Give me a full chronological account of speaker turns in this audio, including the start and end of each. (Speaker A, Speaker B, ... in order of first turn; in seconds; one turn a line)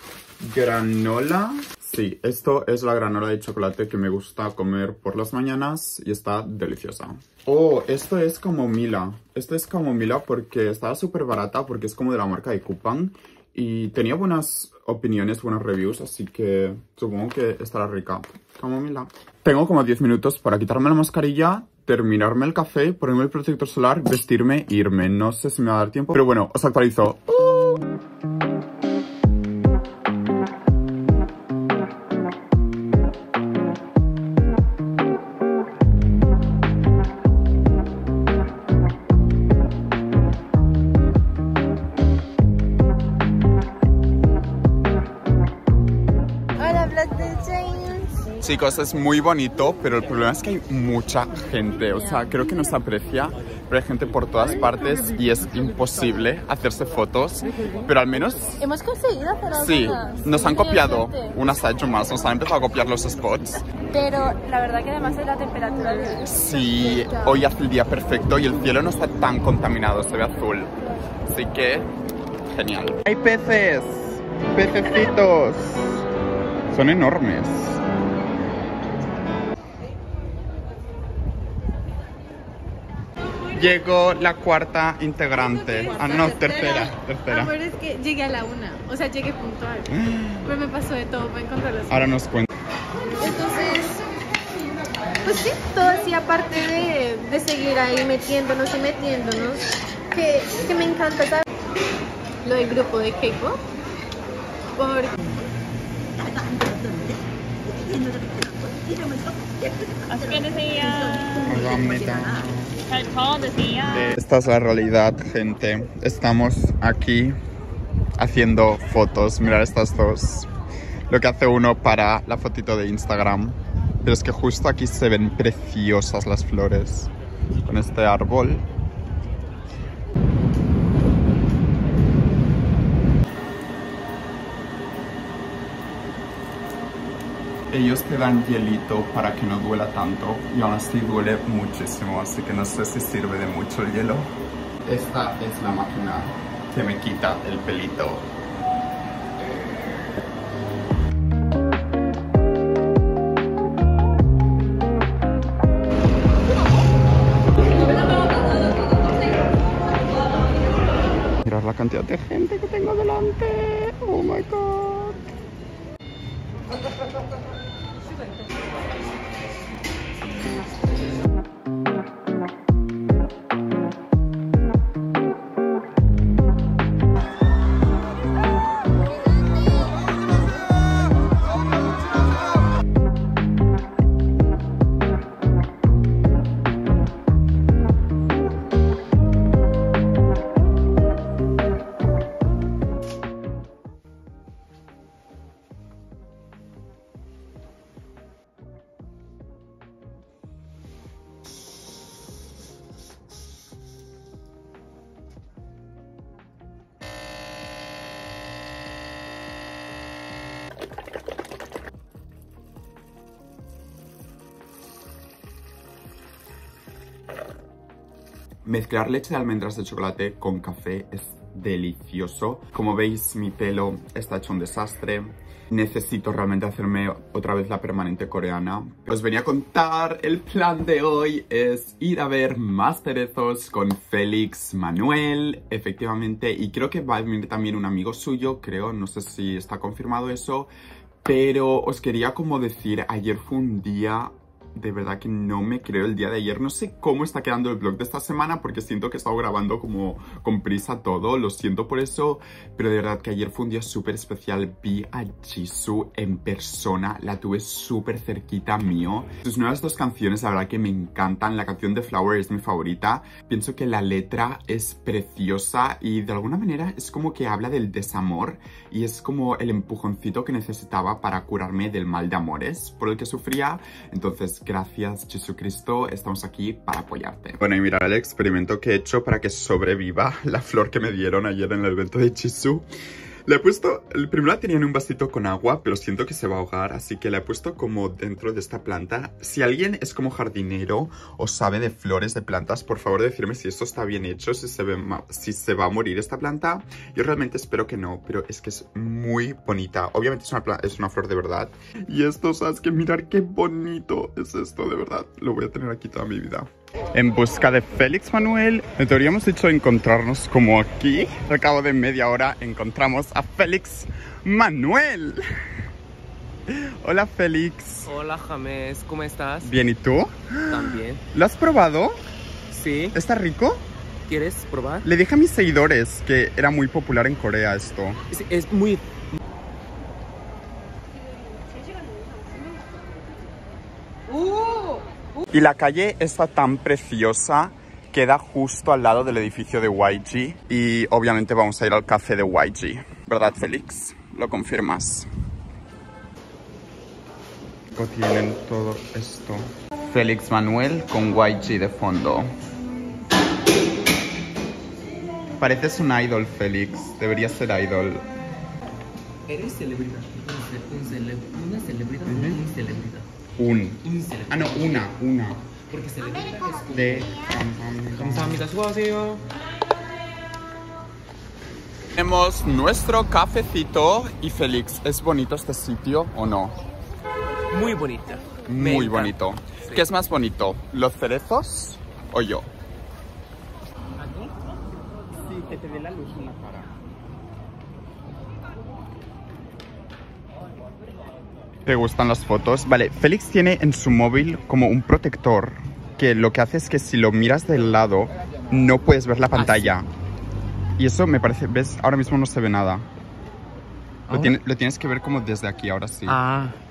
Speaker A: 0.4-27.9
Speaker B: 46.6-48.2
Speaker A: 48.4-58.7
Speaker B: 58.6-61.1
Speaker A: 59.5-63.6
Speaker B: 63.9-67.2
Speaker A: 66.2-71.9
Speaker A: 72.5-76.0
Speaker A: 76.7-77.8
Speaker A: 83.5-87.6
Speaker B: 87.3-89.9
Speaker A: 89.9-90.6
Speaker B: 90.5-92.0
Speaker A: 91.9-92.5
Speaker B: 93.2-94.1
Speaker B: 95.2-101.5
Speaker B: 102.4-103.6
Speaker B: 104.8-105.2
Speaker B: 108.0-109.2
Speaker B: 110.0-111.4
Speaker A: 111.3-112.8
Speaker B: 113.0-113.8
Speaker A: 113.7-117.3
Speaker A: 118.2-120.5
Speaker A: 121.1-127.1
Speaker A: 127.6-128.7
Speaker A: 137.7-144.3
Speaker A: 144.8-148.3
Speaker A: 161.4-165.2
Speaker A: 218.7-240.7
Speaker A: 241.2-282.9
Speaker A: 283.5-315.4
Speaker A: 316.7-318.1
Speaker C: 318.1-319.7
Speaker A: 319.6-322.2
Speaker C: 320.7-321.2
Speaker C: 322.7-323.1
Speaker A: 323.1-323.9
Speaker C: 324.3-325.1
Speaker A: 325.0-328.2
Speaker C: 328.3-329.4
Speaker C: 334.3-335.0
Speaker A: 335.5-345.3
Speaker A: 347.9-352.5
Speaker A: 355.6-358.3
Speaker C: 359.5-363.3
Speaker A: 362.3-362.6
Speaker A: 363.6-365.7
Speaker C: 364.0-365.1
Speaker C: 365.8-367.3
Speaker A: 366.9-368.7
Speaker C: 368.1-369.5
Speaker A: 372.2-376.8
Speaker C: 377.7-379.3
Speaker A: 378.7-382.7
Speaker C: 384.2-384.5
Speaker C: 385.5-386.8
Speaker A: 391.9-400.1
Speaker C: 399.5-399.9
Speaker A: 401.0-403.1
Speaker A: 404.3-406.4
Speaker C: 406.3-406.8